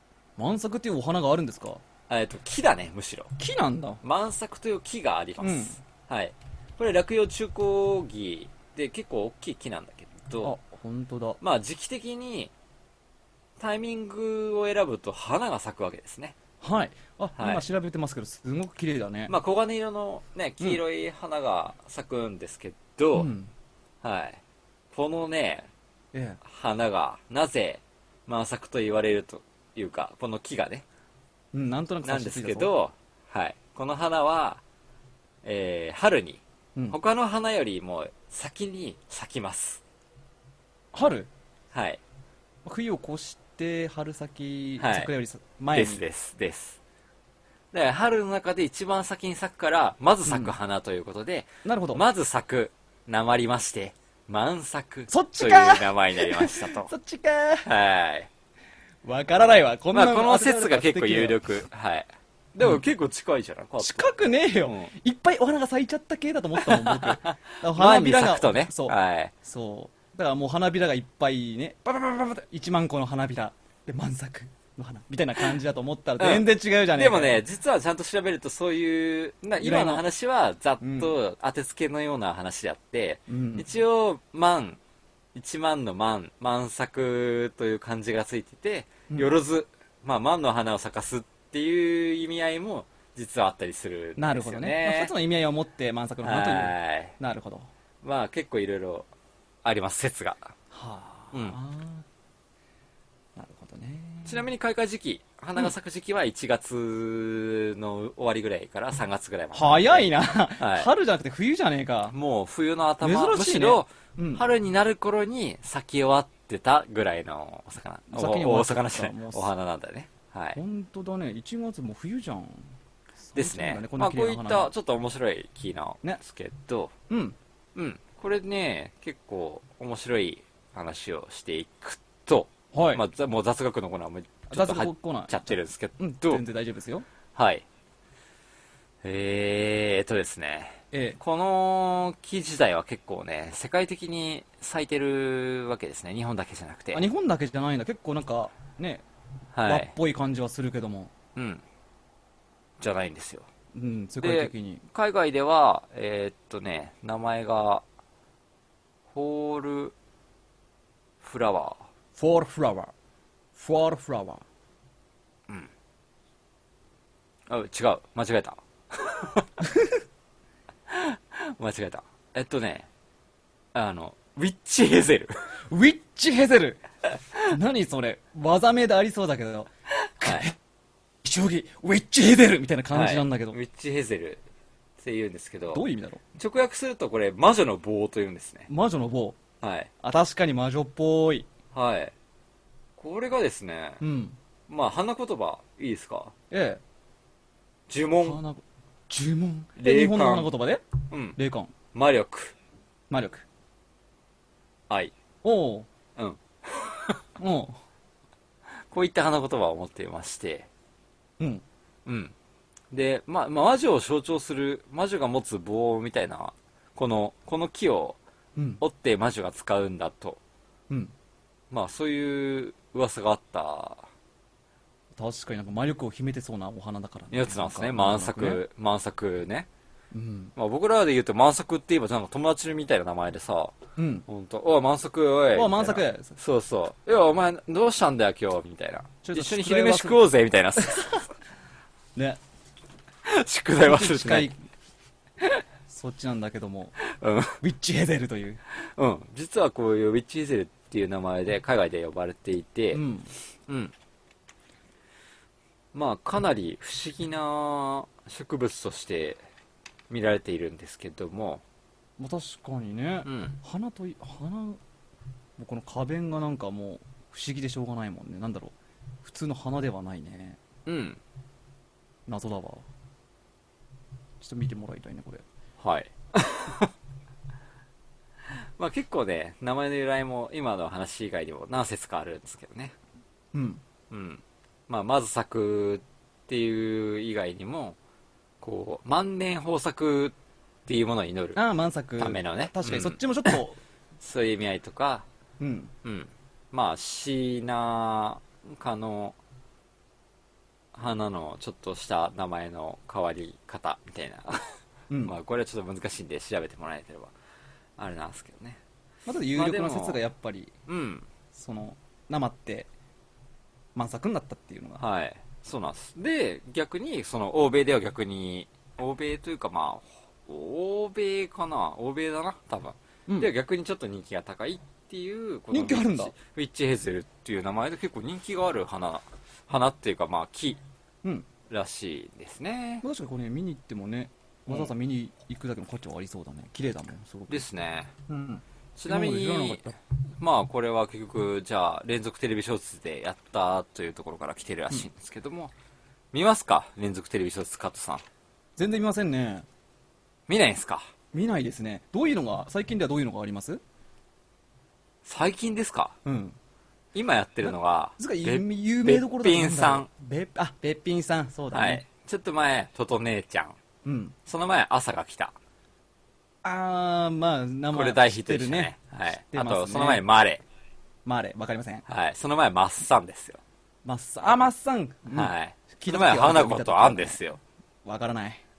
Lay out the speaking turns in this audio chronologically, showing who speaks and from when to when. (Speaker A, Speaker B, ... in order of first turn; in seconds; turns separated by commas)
Speaker A: 0.4-1.8, Speaker B: 2.1-3.3, Speaker A: 3.4-4.0, Speaker B: 4.0-10.5, Speaker A: 5.4-5.8, Speaker A: 10.4-11.4, Speaker B: 11.4-12.5, Speaker B: 13.6-16.3, Speaker A: 16.6-19.3, Speaker B: 17.4-17.6, Speaker B: 19.3-23.3, Speaker A: 23.1-23.5, Speaker B: 24.0-24.4, Speaker B: 24.9-25.7, Speaker A: 26.1-26.4, Speaker B: 26.4-30.8, Speaker A: 31.5-32.7, Speaker B: 32.0-34.6, Speaker B: 35.4-39.8, Speaker A: 40.9-41.3, Speaker B: 41.7-42.0, Speaker A: 42.6-46.0, Speaker B: 44.8-45.1, Speaker B: 45.7-46.8, Speaker B: 47.7-56.9, Speaker A: 50.2-50.5, Speaker A: 51.6-52.0, Speaker A: 55.1-57.7, Speaker B: 57.6-58.3, Speaker A: 59.0-61.4, Speaker B: 59.9-64.9, Speaker A: 63.8-77.4, Speaker B: 66.6-69.3, Speaker B: 76.2-84.8, Speaker A: 79.6-80.0, Speaker A: 80.8-81.1, Speaker A: 83.3-83.7, Speaker B: 85.3-95.1, Speaker A: 94.2-97.7, Speaker B: 96.2-97.1, Speaker B: 98.0-99.1, Speaker B: 99.6-100.5, Speaker A: 100.7-102.0, Speaker A: 103.3-104.5, Speaker B: 104.2-110.9, Speaker A: 109.5-112.2, Speaker B: 112.1-120.6, Speaker A: 113.0-114.5, Speaker A: 118.1-119.5, Speaker A: 120.5-122.7, Speaker A: 123.2-124.7, Speaker B: 123.3-126.9, Speaker A: 127.1-127.3, Speaker B: 127.7-136.4, Speaker A: 132.7-133.0, Speaker A: 134.5-137.1, Speaker B: 137.3-137.6, Speaker B: 139.0-147.1, Speaker A: 140.9-141.2, Speaker A: 146.9-149.0, Speaker B: 149.5-149.9, Speaker A: 149.6-151.1, Speaker B: 151.3-151.6, Speaker B: 152.8-153.5, Speaker A: 153.7-154.8, Speaker B: 154.2-157.8, Speaker B: 159.1-159.9, Speaker B: 161.2-161.8, Speaker A: 162.2-162.9, Speaker A: 163.6-164.4, Speaker B: 167.5-169.5, Speaker A: 169.6-170.0, Speaker B: 170.9-172.9, Speaker B: 173.7-175.3, Speaker A: 175.7-176.8, Speaker A: 177.4-180.6, Speaker B: 180.2-180.5, Speaker A: 181.2-183.6, Speaker B: 182.9-184.4, Speaker B: 185.0-185.8, Speaker A: 185.7-186.2, Speaker B: 186.3-188.7, Speaker A: 188.7-189.4, Speaker B: 189.6-189.9, Speaker A: 190.0-191.5, Speaker B: 191.7-192.1, Speaker B: 193.0-194.0, Speaker A: 194.0-194.3, Speaker B: 194.7-196.3, Speaker A: 196.5-196.8, Speaker B: 197.9-198.4, Speaker A: 198.2-200.8, Speaker B: 199.8-200.5, Speaker B: 201.1-201.4, Speaker A: 201.3-201.7, Speaker B: 201.9-202.5, Speaker A: 203.1-203.4, Speaker A: 205.4-205.9, Speaker B: 206.2-207.2, Speaker A: 207.4-207.8, Speaker B: 208.9-210.7, Speaker B: 212.0-212.3, Speaker B: 212.9-218.2, Speaker A: 218.6-218.8, Speaker B: 218.8-220.4, Speaker B: 221.7-224.0, Speaker A: 225.2-228.6, Speaker B: 227.3-229.7, Speaker A: 230.1-230.5, Speaker B: 230.6-233.7, Speaker A: 234.0-234.2, Speaker B: 234.3-241.2, Speaker A: 235.5-236.3, Speaker A: 239.2-240.2, Speaker B: 243.2-244.5, Speaker A: 243.8-244.6, Speaker A: 245.9-247.0, Speaker B: 247.0-247.6, Speaker A: 247.6-248.6, Speaker B: 248.8-253.0, Speaker A: 252.9-253.3, Speaker B: 253.7-253.9, Speaker B: 255.9-259.4, Speaker B: 260.1-261.6, Speaker A: 262.2-264.8, Speaker B: 263.2-263.6, Speaker A: 265.6-270.6, Speaker B: 270.9-271.2, Speaker A: 272.3-272.8, Speaker A: 274.4-275.4, Speaker B: 275.8-276.9, Speaker B: 278.5-282.9, Speaker A: 283.5-283.8, Speaker B: 284.1-288.0, Speaker B: 288.6-290.3, Speaker B: 290.9-291.6, Speaker A: 291.5-293.8, Speaker B: 292.2-293.6, Speaker B: 294.2-295.2, Speaker A: 295.6-295.9, Speaker B: 296.0-299.4, Speaker B: 300.9-304.7, Speaker A: 305.1-305.4, Speaker B: 305.2-307.3, Speaker B: 308.0-308.8, Speaker A: 309.2-310.7, Speaker B: 309.5-310.2, Speaker B: 310.9-311.3, Speaker A: 311.5-312.9, Speaker A: 313.9-315.0, Speaker B: 315.0-330.8, Speaker A: 325.7-326.3, Speaker B: 331.7-333.0, Speaker A: 333.0-337.6, Speaker B: 337.5-338.1, Speaker A: 338.3-340.0, Speaker B: 338.9-339.8, Speaker B: 340.4-345.7, Speaker B: 346.3-348.2, Speaker A: 348.8-349.6, Speaker B: 350.5-351.0, Speaker A: 351.3-353.8, Speaker B: 355.2-356.1, Speaker A: 356.2-356.6, Speaker B: 357.1-360.1, Speaker A: 357.6-362.0, Speaker B: 361.7-363.8, Speaker A: 364.0-364.3, Speaker B: 364.4-365.5, Speaker A: 366.6-370.2, Speaker B: 367.9-370.6, Speaker A: 371.2-372.0, Speaker B: 372.1-373.6, Speaker A: 374.0-377.4, Speaker B: 375.3-377.6, Speaker A: 378.0-378.6